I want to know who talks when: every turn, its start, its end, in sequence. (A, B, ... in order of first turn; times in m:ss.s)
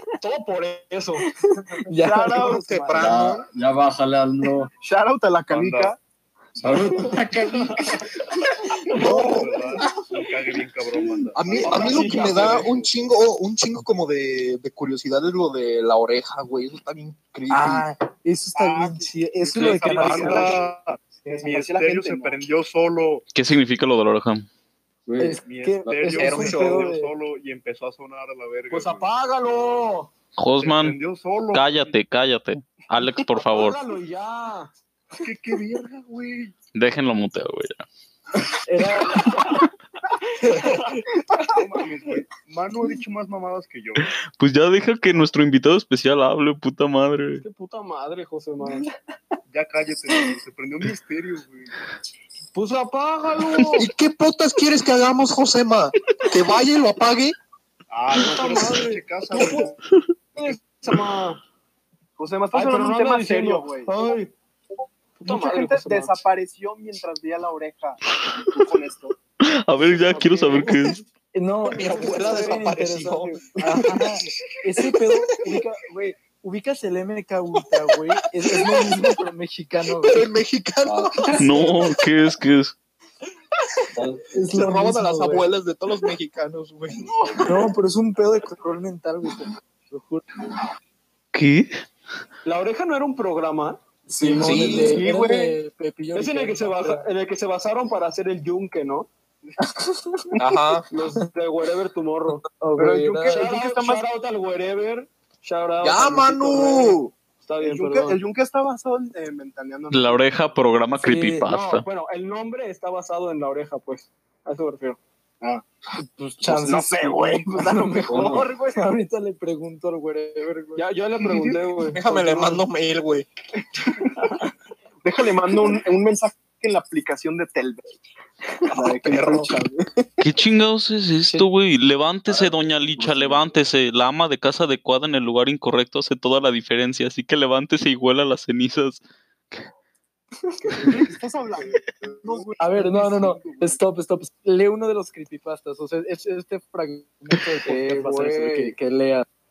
0:00.2-0:01.3 A
0:01.6-0:02.6 B
0:01.9-0:03.0 C
0:02.4-0:03.5 D
0:02.9-0:04.7 E
0:04.8-0:06.0 C
0:05.5-0:05.9 F
0:06.6-0:07.9 E
0:07.5-0:08.1 A
0:08.9-0:09.8 D
0:08.9-0:12.9 F
0:11.4-0:17.9 D
0:11.6-0:12.7 A
0:17.5-0:20.6 B
0:18.5-0:20.7 C
0:19.6-0:20.5 A
0:19.6-0:23.3 F
0:21.3-0:22.4 C
0:23.3-0:24.5 G
0:25.1-0:25.4 E
0:25.2-0:27.1 B
0:25.4-0:29.2 F
0:26.0-0:26.9 D
0:28.7-0:30.1 A
0:30.4-0:31.0 G
0:30.6-0:32.0 F
0:31.5-0:33.8 G
0:33.4-0:34.7 A
0:35.2-0:36.5 F
0:36.8-0:37.8 G
0:38.6-0:39.4 B
0:40.5-0:40.8 B
0:41.5-0:44.1 F
0:44.0-0:47.4 G
0:47.4-0:48.9 A
0:49.5-0:51.7 F
0:52.6-0:53.9 A
0:53.8-0:57.4 D
0:57.9-0:59.8 F
0:58.1-0:59.7 A
1:00.4-1:01.4 A
1:02.2-1:03.9 C
1:02.5-1:04.1 A
1:04.0-1:04.3 B
1:05.2-1:06.1 A
1:05.2-1:09.1 C
1:09.4-1:11.0 G
1:10.1-1:10.7 A
1:11.3-1:20.3 B
1:11.6-1:14.1 D
1:12.0-1:12.6 C
1:13.2-1:13.8 C
1:18.4-1:19.1 D
1:20.0-1:21.3 D
1:20.8-1:21.6 E
1:21.4-1:22.7 G
1:23.9-1:24.3 E
1:24.3-1:25.5 B
1:24.5-1:27.7 D
1:27.4-1:30.2 B
1:31.3-1:31.7 G
1:32.4-1:34.8 A
1:34.1-1:37.1 B
1:34.4-1:35.0 D
1:34.4-1:35.6 C
1:36.1-1:39.1 A
1:39.6-1:40.3 B
1:40.4-1:40.9 D
1:40.9-1:42.4 A
1:42.6-1:43.4 B
1:42.8-1:44.0 C
1:43.3-1:48.2 A
1:45.8-1:47.1 D
1:47.6-1:50.3 C
1:49.9-1:51.9 G
1:51.0-1:51.5 B
1:51.5-1:55.0 A
1:56.0-2:00.8 B
1:56.4-1:58.8 C
1:58.1-1:58.5 E
2:00.8-2:02.0 A
2:01.9-2:03.3 D
2:02.0-2:02.6 B
2:03.9-2:04.2 C
2:05.0-2:08.0 C
2:08.7-2:10.1 C
2:08.7-2:09.5 D
2:10.2-2:19.0 G
2:20.6-2:21.0 B
2:20.8-2:23.8 C
2:22.6-2:29.3 B
2:27.6-2:28.8 A